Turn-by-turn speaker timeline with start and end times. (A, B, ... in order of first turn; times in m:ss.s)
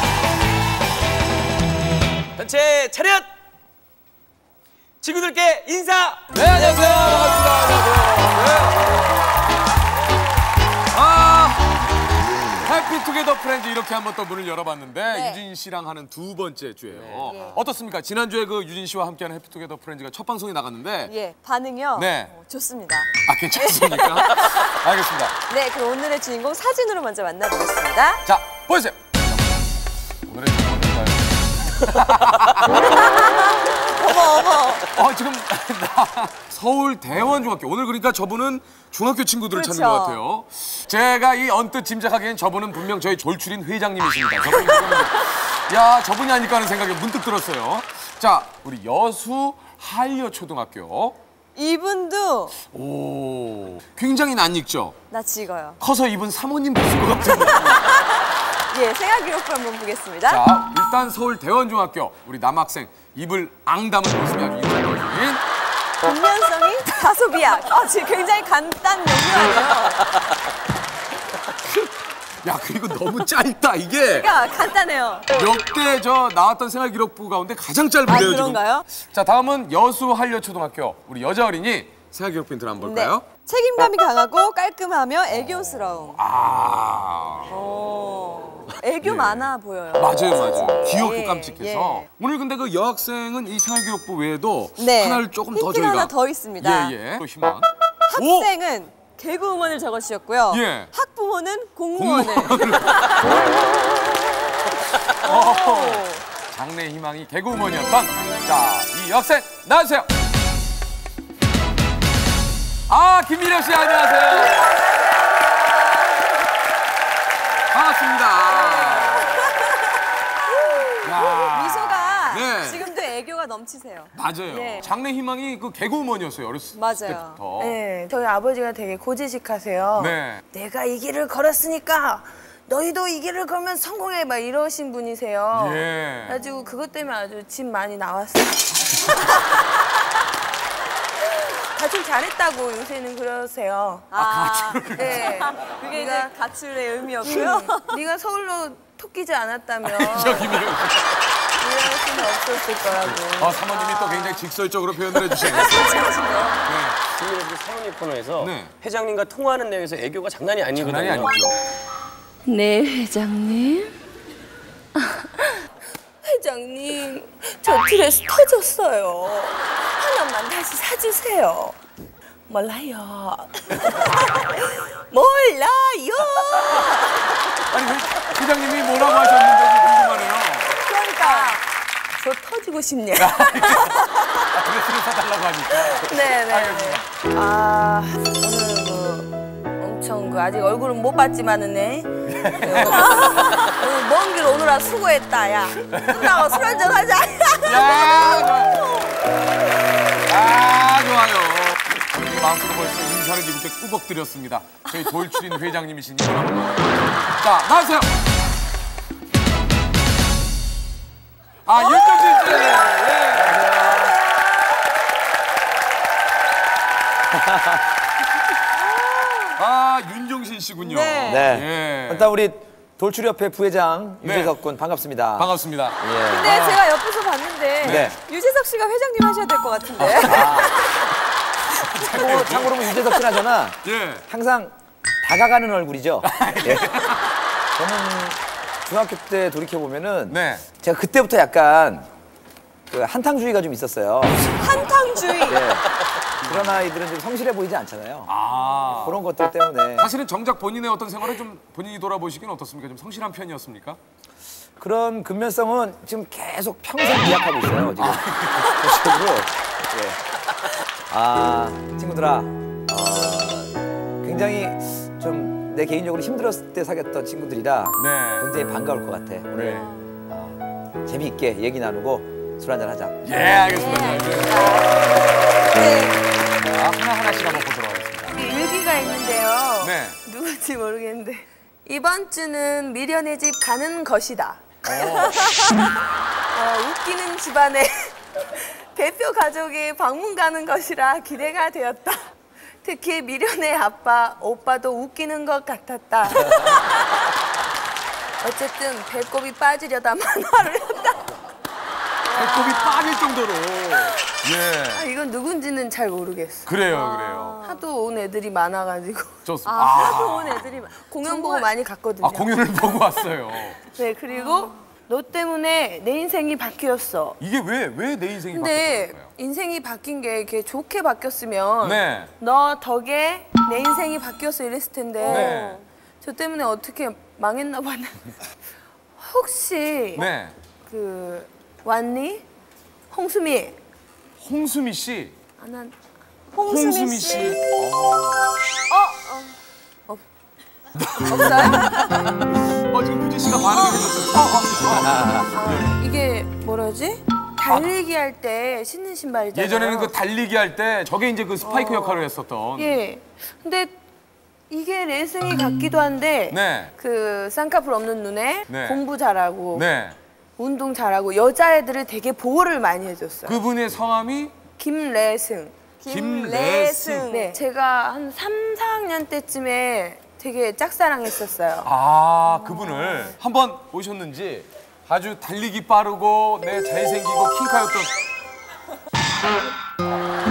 0:02.4-0:03.3 A
0:05.0-0:06.2 A
0:06.3-0:09.0 B
0:06.5-0:07.8 C
0:10.9-0:11.6 B
0:12.6-0:21.1 B
0:15.1-0:15.4 C
0:17.2-0:17.6 C
0:21.1-0:24.8 C
0:21.9-0:22.3 B
0:23.2-0:25.3 B
0:25.5-0:28.2 C
0:28.2-0:29.6 B
0:30.3-0:33.3 B
0:32.8-0:34.8 C
0:34.9-0:51.2 B
0:39.5-0:40.2 C
0:44.6-0:45.1 C
0:51.5-0:52.5 C
0:52.6-0:55.0 B
0:55.1-0:55.8 C
0:55.8-0:57.9 B
0:57.3-1:00.4 C
1:00.2-1:05.4 B
1:06.0-1:10.1 C
1:12.4-1:14.3 B
1:14.0-1:15.3 C
1:15.3-1:23.2 B
1:18.0-1:18.8 C
1:22.8-1:26.2 C
1:26.1-1:27.5 B
1:27.5-1:32.0 C
1:29.0-1:38.5 B
1:34.8-1:36.9 C
1:38.1-1:46.2 C
1:40.5-1:40.9 B
1:41.9-1:43.5 B
1:45.2-1:50.1 B
1:52.9-1:54.8 B
1:54.3-1:56.3 C
1:57.7-1:59.6 B
1:58.5-1:59.8 C
2:00.5-2:04.9 C
2:01.0-2:02.9 B
2:04.1-2:07.8 B
2:06.7-2:07.4 C
2:07.6-2:19.3 D
2:10.0-2:10.4 B
2:15.5-2:16.4 B
2:21.7-2:24.1 D
2:24.1-2:28.0 C
2:24.1-2:25.6 B
2:24.9-2:26.3 D
2:27.2-2:30.7 D
2:29.8-2:31.2 B
2:31.6-2:33.6 D
2:33.0-2:36.0 B
2:33.7-2:34.4 C
2:35.1-2:36.7 C
2:36.6-2:37.0 B
2:37.1-2:41.3 A
2:38.4-2:38.7 B
2:40.7-2:41.5 B
2:42.4-2:43.9 D
2:45.0-2:45.6 D
2:46.2-2:51.8 D
2:52.5-2:57.4 D
2:57.7-3:00.7 B
3:00.8-3:01.6 D
3:00.9-3:01.6 C
3:02.2-3:04.0 D
3:03.2-3:07.0 B
3:05.9-3:18.8 D
3:12.3-3:13.7 B
3:15.9-3:16.6 B
3:17.6-3:18.8 B
3:20.3-3:28.2 B
3:31.6-3:34.1 B
3:31.8-3:33.1 C
3:33.4-3:34.1 E
3:33.7-3:34.8 C
3:37.3-3:37.8 E
3:38.8-3:39.6 C
3:39.6-3:42.3 B
3:40.8-3:41.5 C
3:41.2-3:46.5 E
3:44.2-3:44.6 B
3:45.4-3:46.8 B
3:46.2-3:51.0 C
3:47.8-3:48.2 B
3:47.8-3:48.2 E
3:50.0-3:50.5 B
3:50.1-3:50.7 E
3:51.9-3:52.9 B
3:52.0-3:57.0 E
3:53.8-3:54.2 B
3:56.2-3:57.2 B
3:57.8-4:02.1 E
4:00.3-4:00.6 B
4:02.9-4:04.5 E
4:04.4-4:05.6 C
4:05.4-4:05.9 E
4:06.4-4:08.3 E
4:06.4-4:06.8 B
4:08.3-4:09.2 B
4:09.0-4:10.1 E
4:10.0-4:14.0 B
4:14.8-4:20.2 E
4:18.0-4:19.0 B
4:21.1-4:29.8 E
4:28.0-4:28.5 B
4:29.6-4:30.5 B
4:31.0-4:33.1 E
4:33.2-4:34.7 B
4:33.6-4:36.2 C
4:36.7-4:38.4 B
4:38.3-4:45.7 D
4:39.8-4:40.2 B
4:44.8-4:45.4 B
4:46.5-4:52.3 D
4:52.8-4:57.0 D
4:58.4-5:01.2 D
5:02.2-5:03.3 C
5:02.3-5:05.0 B
5:04.9-5:06.7 D
5:06.7-5:07.6 B
5:06.9-5:07.8 C
5:07.6-5:09.3 D
5:09.4-5:10.8 B
5:09.6-5:11.7 C
5:11.0-5:12.6 D
5:12.2-5:13.8 B
5:13.9-5:17.4 D
5:14.3-5:14.7 C
5:17.4-5:19.3 B
5:18.5-5:25.6 D
5:21.8-5:22.3 B
5:25.2-5:25.8 C
5:25.2-5:25.8 B
5:26.2-5:28.3 D
5:29.2-5:30.3 D
5:30.2-5:30.5 B
5:30.9-5:32.4 D
5:33.1-5:33.8 D
5:34.4-5:35.3 B
5:35.6-5:35.9 D
5:36.6-5:37.4 D
5:36.6-5:38.5 B
5:36.7-5:37.6 C
5:38.9-5:39.5 C
5:41.0-5:45.9 B
5:41.2-5:42.1 D
5:41.7-5:42.3 C
5:43.7-5:44.1 C
5:44.9-5:45.5 E
5:45.5-5:50.1 D
5:47.6-5:47.9 B
5:49.5-5:53.0 B
5:51.6-5:52.2 D
5:52.8-5:54.0 D
5:54.7-5:59.8 D
5:56.5-5:56.9 B
5:58.7-5:59.0 B
5:59.7-6:00.2 B
6:00.6-6:03.6 D
6:03.4-6:04.5 B
6:04.8-6:05.7 D
6:06.0-6:07.6 C
6:06.1-6:07.3 B
6:07.3-6:11.9 D
6:11.8-6:18.1 B